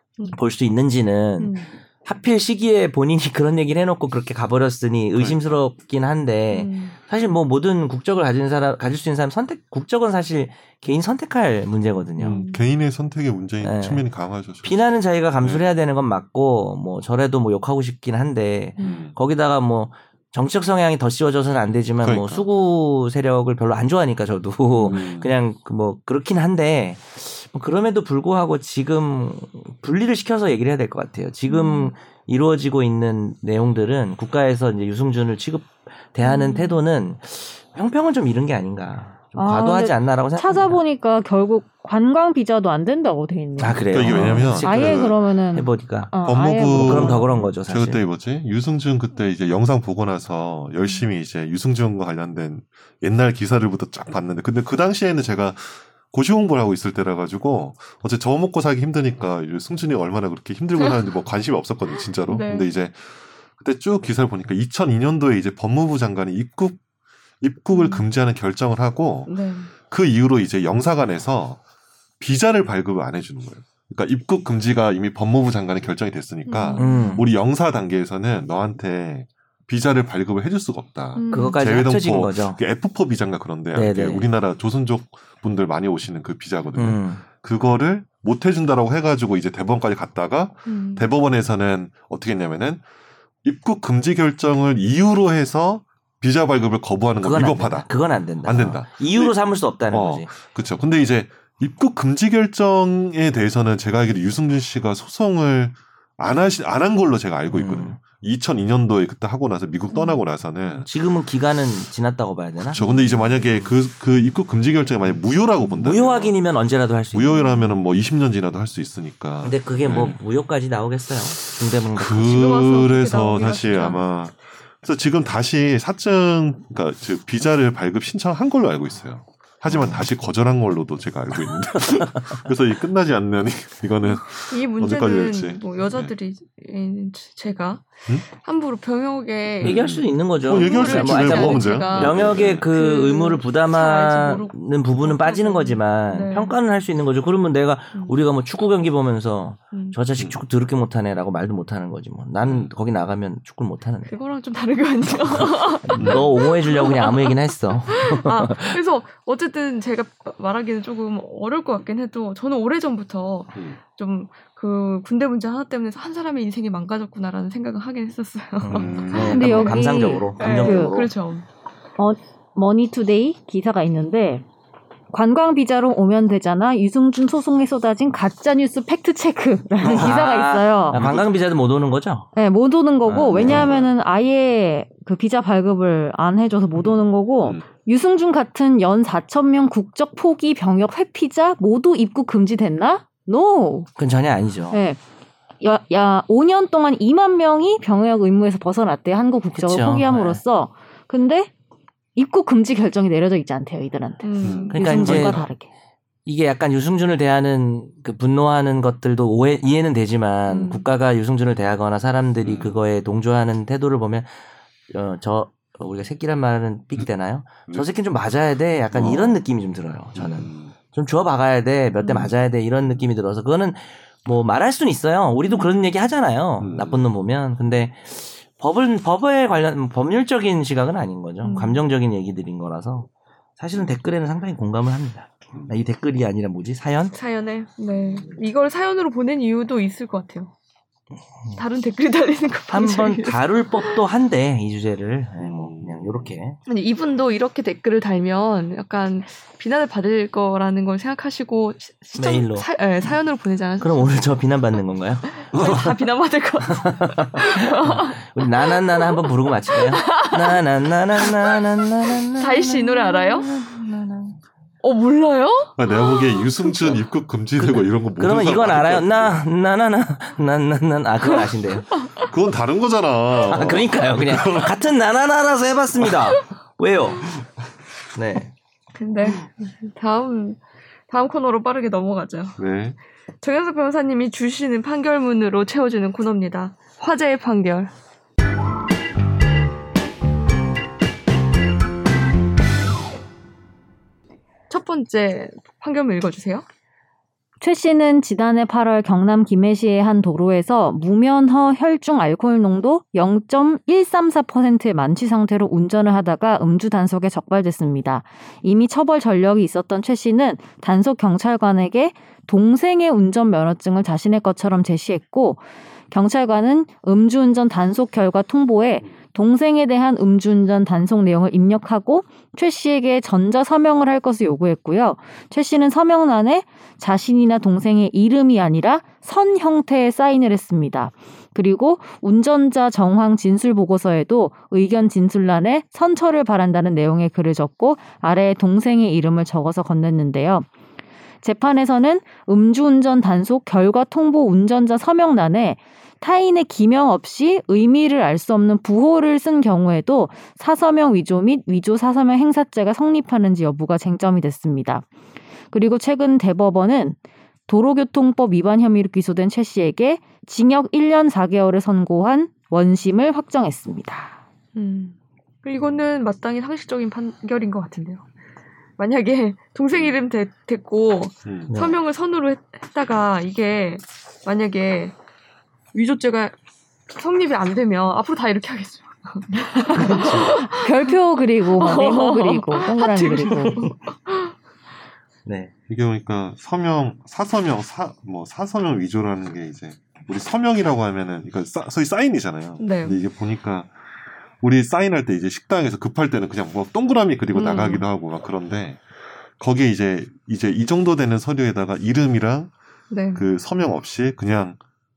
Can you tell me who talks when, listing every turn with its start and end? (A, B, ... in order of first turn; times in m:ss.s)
0:00.3-0:12.4 A
0:01.4-0:01.7 B
0:05.2-0:05.6 C
0:06.5-0:07.0 B
0:12.2-0:14.8 C
0:12.2-0:12.6 B
0:13.6-0:14.0 A
0:14.6-0:40.8 A
0:18.8-0:19.0 B
0:18.8-0:19.2 C
0:22.0-0:22.5 C
0:24.8-0:25.3 C
0:31.5-0:31.9 B
0:36.2-0:36.8 B
0:39.4-0:47.3 D
0:43.6-0:48.0 A
0:43.9-0:45.2 C
0:46.2-1:06.8 C
1:02.2-1:02.7 B
1:07.4-1:09.3 C
1:07.7-1:08.1 B
1:09.3-1:09.7 B
1:09.9-1:11.6 C
1:12.2-1:32.8 C
1:16.5-1:17.2 B
1:16.8-1:17.3 A
1:21.2-1:21.6 B
1:21.3-1:22.6 A
1:23.7-1:24.3 A
1:26.8-1:27.2 A
1:30.7-1:31.1 B
1:33.4-1:37.9 C
1:37.2-1:40.3 A
1:38.4-1:39.4 C
1:39.9-1:50.9 C
1:47.5-1:48.0 A
1:49.9-1:50.2 B
1:50.8-1:52.8 A
1:52.7-1:56.4 C
1:52.8-1:53.3 B
1:55.8-1:57.5 A
1:57.1-2:00.2 C
1:59.4-2:02.5 A
2:01.9-2:16.1 C
2:02.2-2:04.0 B
2:09.7-2:10.0 A
2:11.8-2:12.3 A
2:14.1-2:20.0 B
2:19.6-2:22.7 C
2:19.6-2:34.1 A
2:20.5-2:26.6 B
2:29.7-2:30.0 B
2:30.2-2:30.4 C
2:32.5-2:32.7 C
2:34.1-2:51.5 B
2:35.9-2:38.8 A
2:35.9-2:36.3 C
2:48.6-2:51.1 A
2:48.7-2:49.5 C
2:49.3-2:51.0 D
2:52.0-2:54.4 D
2:55.1-3:01.0 D
2:59.8-3:02.3 A
2:59.8-3:00.2 C
3:00.9-3:01.3 C
3:02.4-3:13.9 D
3:03.1-3:03.8 A
3:03.2-3:03.9 C
3:14.0-3:14.8 A
3:14.7-3:15.0 D
3:15.6-3:21.5 D
3:19.6-3:20.4 A
3:22.2-3:25.7 D
3:24.2-3:25.1 B
3:24.4-3:25.5 C
3:24.7-3:25.4 A
3:26.3-3:34.3 A
3:30.5-3:30.9 B
3:32.4-3:32.8 C
3:34.9-3:57.2 A
3:38.9-3:39.4 C
3:40.2-3:40.7 C
3:42.0-3:42.3 B
3:45.5-3:45.8 B
3:46.6-3:47.1 C
3:51.4-3:51.9 B
3:57.1-4:00.5 B
4:01.6-4:04.0 B
4:02.7-4:06.6 A
4:05.4-4:06.2 C
4:06.7-4:14.2 B
4:12.2-4:12.7 A
4:13.8-4:15.9 A
4:15.4-4:20.6 B
4:16.7-4:24.4 A
4:21.2-4:21.6 B
4:22.3-4:23.5 B
4:24.8-4:27.0 B
4:25.8-4:29.4 C
4:27.6-4:32.0 A
4:32.3-4:34.8 C
4:33.4-4:37.3 A
4:38.2-4:38.5 A
4:39.0-4:42.6 B
4:42.6-4:43.0 C
4:43.4-4:47.9 B
4:54.7-4:56.6 B
4:57.6-5:40.7 D
5:41.4-5:55.1 D
5:55.7-6:04.4 D
6:04.8-6:08.2 B
6:09.0-6:15.2 B
6:11.5-6:11.7 C
6:11.7-6:12.0 A
6:15.9-6:16.5 B
6:17.1-6:24.5 B
6:19.8-6:23.9 D
6:19.9-6:20.5 A
6:25.5-6:25.7 A
6:25.9-6:33.9 C
6:32.8-6:33.2 B
6:34.6-6:39.0 C
6:37.5-6:38.0 B
6:39.6-6:42.7 C
6:43.1-6:43.4 B
6:43.4-6:44.8 C